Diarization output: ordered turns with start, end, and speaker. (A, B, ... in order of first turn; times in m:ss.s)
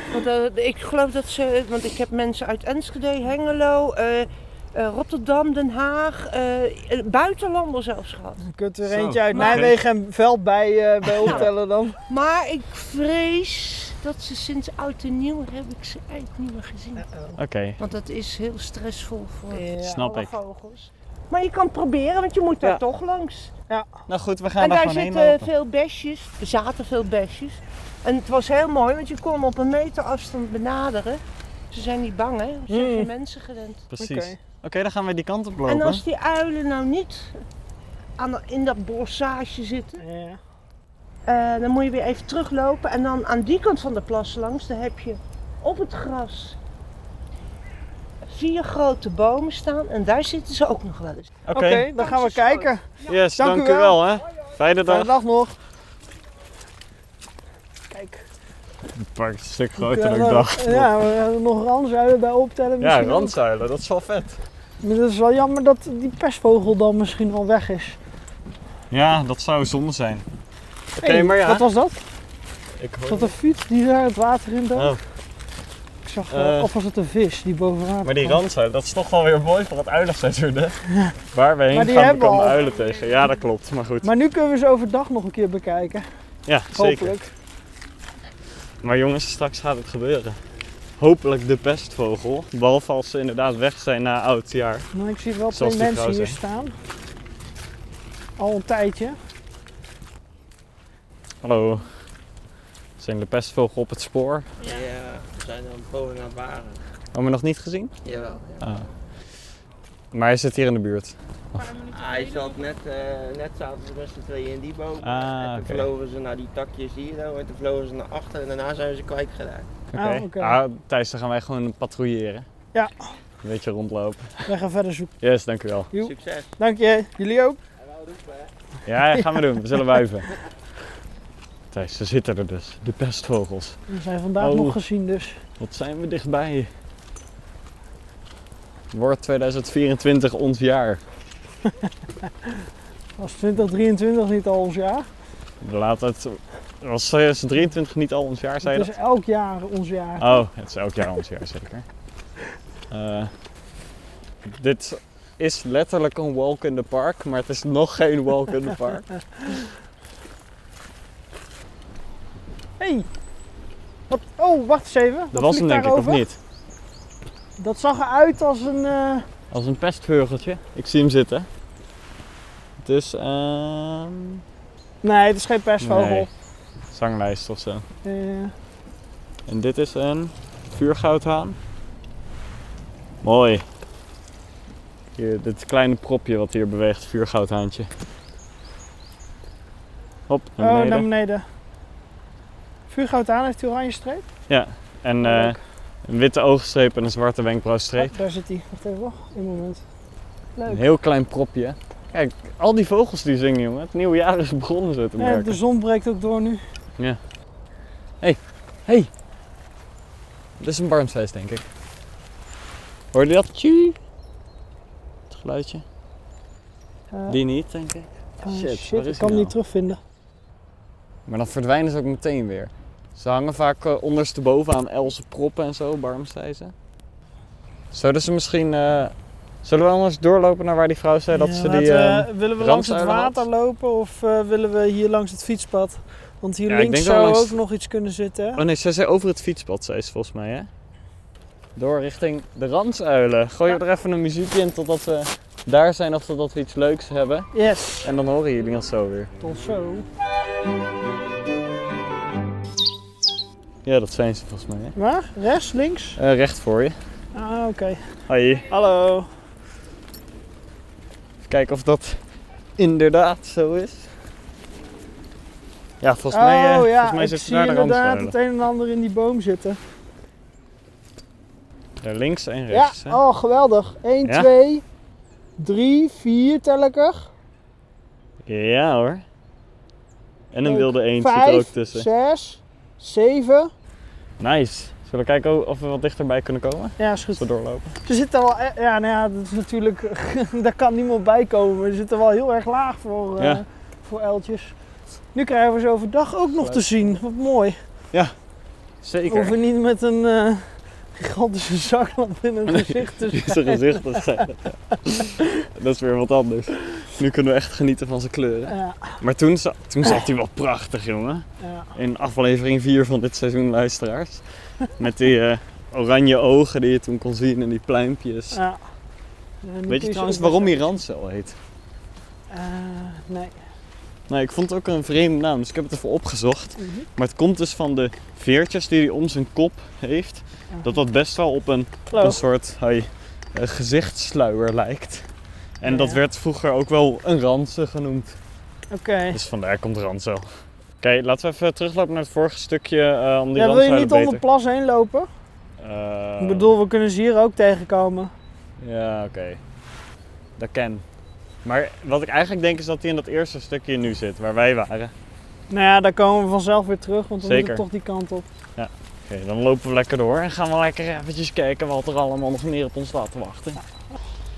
0:00.1-0:08.4 A
0:08.4-0:12.0 B
0:08.8-0:09.8 C
0:09.3-0:09.7 A
0:12.1-0:17.0 A
0:17.0-0:17.4 B
0:17.4-0:17.8 C
0:17.8-0:23.5 A
0:19.5-0:20.0 B
0:19.8-0:20.3 C
0:24.1-0:25.5 C
0:24.6-0:33.9 A
0:32.7-0:33.1 B
0:33.9-0:36.0 C
0:34.0-0:34.4 B
0:35.7-0:37.4 A
0:38.2-0:40.0 A
0:40.0-0:40.4 B
0:41.3-0:46.6 A
0:48.3-0:51.4 A
0:51.5-0:51.9 C
0:51.5-0:54.0 B
0:52.0-0:53.2 A
0:53.1-0:55.2 C
0:54.9-0:55.6 B
0:57.9-0:58.3 B
0:59.0-1:00.9 C
0:59.8-1:03.4 B
1:02.8-1:04.4 C
1:04.8-1:08.0 B
1:08.9-1:10.2 C
1:11.0-1:11.7 C
1:11.0-1:12.0 B
1:12.8-1:13.4 C
1:13.1-1:15.0 B
1:16.0-1:18.4 B
1:16.3-1:16.7 C
1:18.0-1:24.1 C
1:21.7-1:22.6 B
1:24.0-1:26.1 B
1:26.5-1:27.2 C
1:26.7-1:27.3 B
1:28.8-1:30.4 C
1:31.0-1:34.9 C
1:34.9-1:36.8 B
1:35.5-1:36.4 C
1:38.4-1:39.2 B
1:41.4-1:41.9 C
1:43.0-1:44.5 C
1:44.6-1:46.8 D
1:47.1-1:48.0 C
1:48.0-1:48.7 D
1:48.6-1:48.9 C
1:50.1-1:51.8 C
1:51.8-1:59.7 D
1:55.0-1:55.9 C
1:59.9-2:02.5 C
2:00.0-2:00.6 B
2:02.7-2:03.1 B
2:03.4-2:04.5 C
2:04.5-2:05.1 B
2:05.2-2:05.9 C
2:05.9-2:07.6 B
2:06.0-2:06.5 D
2:08.8-2:10.3 C
2:09.1-2:09.8 B
2:11.7-2:13.8 C
2:13.9-2:15.4 B
2:14.4-2:14.8 C
2:15.6-2:16.7 C
2:18.9-2:21.0 C
2:23.2-2:25.1 B
2:25.6-2:28.9 C
2:28.6-2:30.4 B
2:30.2-2:31.8 C
2:32.9-2:33.3 C
2:34.4-2:39.1 C
2:42.8-2:43.1 B
2:44.1-2:46.2 B
2:45.3-2:46.4 C
2:47.6-2:49.3 B
2:49.5-2:51.5 C
2:52.8-2:54.4 C
2:55.0-2:56.3 B
2:55.8-2:56.3 C
2:56.9-2:57.9 C
2:58.0-2:58.5 B
2:59.5-3:01.6 C
3:03.2-3:03.6 C
3:05.2-3:07.9 C
3:10.3-3:11.1 C
3:10.6-3:11.4 B
3:12.9-3:14.2 B
3:14.5-3:18.2 C
3:15.2-3:15.6 B
3:18.0-3:19.8 B
3:20.6-3:20.8 B
3:20.7-3:25.6 C
3:25.2-3:26.6 B
3:28.2-3:29.1 C
3:30.6-3:31.6 C
3:33.1-3:34.0 C
3:35.3-3:35.8 C
3:37.1-3:37.4 B
3:37.3-3:39.6 C
3:38.4-3:40.0 B
3:41.3-3:46.7 C
3:47.9-3:53.5 C
3:51.3-3:58.6 B
3:56.7-3:57.6 C
3:58.6-4:00.7 C
4:01.8-4:09.3 C
4:07.5-4:08.1 B
4:09.4-4:10.1 B
4:13.8-4:15.0 C
4:15.0-4:16.2 B
4:16.2-4:17.0 C
4:17.4-4:18.0 B
4:18.3-4:18.7 C
4:18.7-4:19.3 B
4:21.4-4:22.2 C
4:22.8-4:24.1 C
4:26.0-4:28.4 C
4:26.3-4:29.8 B
4:32.0-4:33.2 C
4:32.7-4:34.8 B
4:34.2-4:34.5 C
4:35.6-4:37.3 B
4:38.5-4:39.2 C
4:40.5-4:42.1 C
4:40.6-4:43.7 B
4:44.4-4:48.0 C
4:47.0-4:47.4 B
4:48.0-4:54.8 B
4:53.4-4:53.6 C
4:55.3-4:57.8 B
4:56.6-4:56.9 C
4:59.0-4:59.6 C
4:59.3-5:04.4 B
5:02.7-5:18.6 C
5:08.7-5:09.2 B
5:11.6-5:11.9 B
5:18.5-5:18.8 B
5:19.6-5:20.9 B
5:19.9-5:21.6 C
5:22.5-5:23.6 B
5:24.3-5:35.3 C
5:26.8-5:27.1 B
5:32.1-5:32.4 B
5:35.8-5:38.4 C
5:35.8-5:36.2 B
5:38.9-5:39.4 B
5:39.3-5:44.4 C
5:43.6-5:45.3 B
5:45.8-5:46.7 C
5:46.4-5:48.3 B
5:48.8-5:49.6 C
5:50.6-5:51.0 C
5:51.6-5:55.1 C
5:55.7-5:58.5 B
5:57.4-5:57.8 C
5:58.8-6:03.8 C